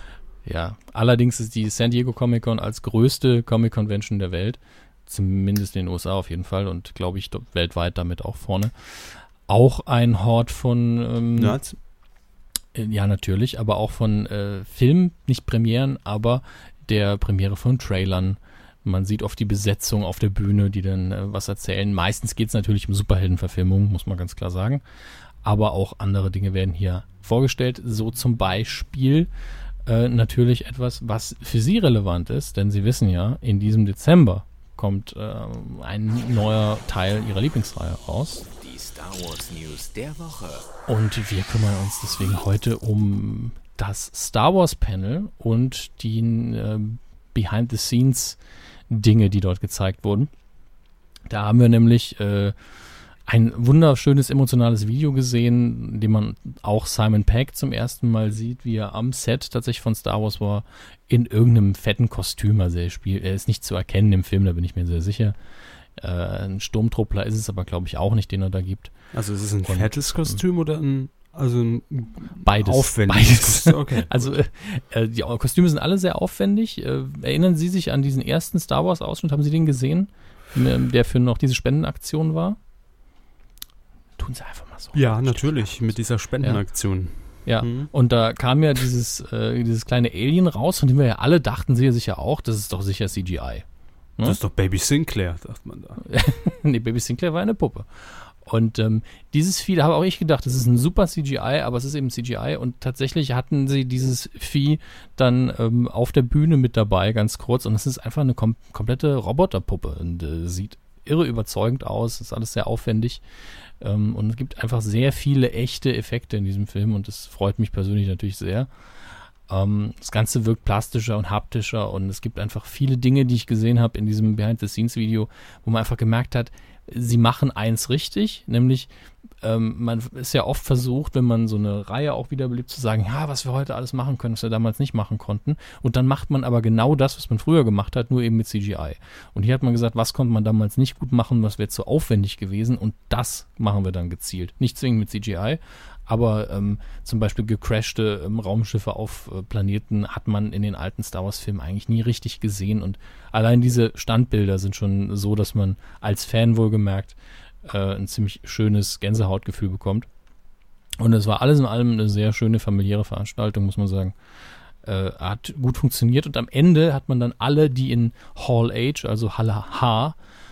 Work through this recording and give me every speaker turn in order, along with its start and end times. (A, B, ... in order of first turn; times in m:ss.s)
0:00.4-0:11.6 A
0:11.4-0:11.8 B
0:12.7-0:24.8 A
0:25.4-0:29.3 A
0:29.8-0:38.4 A
0:38.6-0:40.7 C
0:40.9-0:48.4 A
0:48.9-0:50.3 A
0:51.3-0:52.6 A
0:53.2-1:05.4 A
1:06.0-1:08.9 A
1:09.1-1:14.3 B
1:09.6-1:10.4 A
1:12.4-1:22.6 A
1:24.2-1:26.6 A
1:24.9-1:27.9 B
1:27.4-1:33.6 A
1:34.2-1:36.0 B
1:36.0-1:53.2 A
1:53.8-1:58.7 A
1:59.5-2:08.9 A
2:09.4-2:40.1 A
2:41.0-2:44.1 A
2:44.8-2:50.2 A